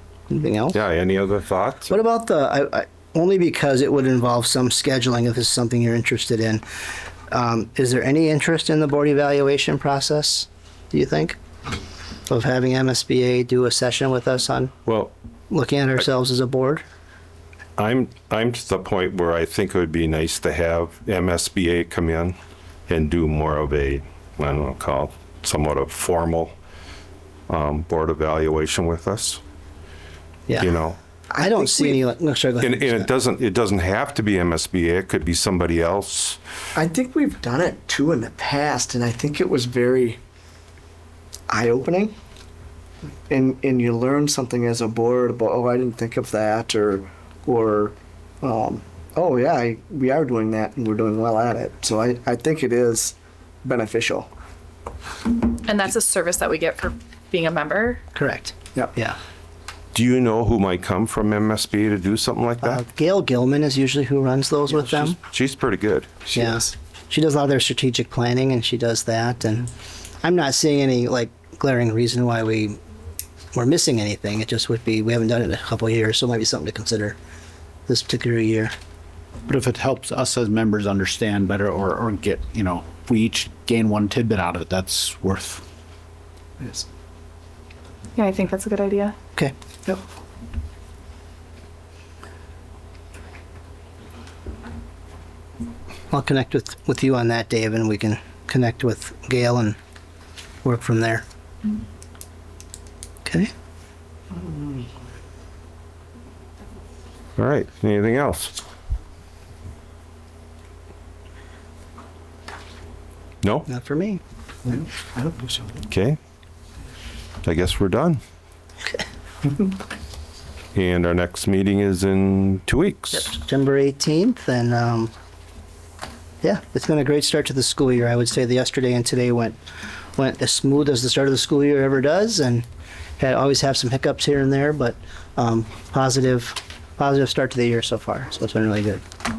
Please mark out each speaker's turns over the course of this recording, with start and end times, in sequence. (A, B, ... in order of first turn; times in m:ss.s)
0:00.3-0:00.8 A
0:00.7-0:01.9 B
0:01.9-0:06.6 A
0:07.3-0:11.4 A
0:12.3-0:14.7 A
0:14.9-0:15.1 B
0:15.5-0:16.8 A
0:17.8-0:22.4 B
0:22.9-0:26.5 B
0:27.5-0:29.4 B
0:30.6-0:31.0 B
0:31.3-0:32.0 C
0:31.4-0:33.1 A
0:32.6-0:36.4 B
0:36.8-0:40.2 C
0:41.5-0:42.1 C
0:43.3-0:54.3 C
0:55.6-0:58.0 D
0:58.2-0:59.2 A
0:59.9-1:02.8 B
1:02.6-1:05.2 A
1:05.2-1:06.1 B
1:06.4-1:09.7 A
1:10.2-1:12.8 A
1:13.5-1:17.2 A
1:17.9-1:18.7 A
1:19.5-1:25.6 E
1:26.6-1:26.8 C
1:28.2-1:29.2 D
1:36.1-1:39.8 A
1:40.6-1:41.2 A
1:43.2-1:43.5 A
1:44.4-1:44.8 C
1:47.4-1:48.6 B
1:53.4-1:53.7 B
1:53.7-1:54.2 A
1:54.8-1:55.5 C
1:55.9-1:56.2 B
1:57.4-1:58.2 B
2:00.8-2:03.3 B
2:03.1-2:05.1 A
2:06.4-2:09.6 A
2:10.2-2:12.7 A
2:13.2-2:19.0 A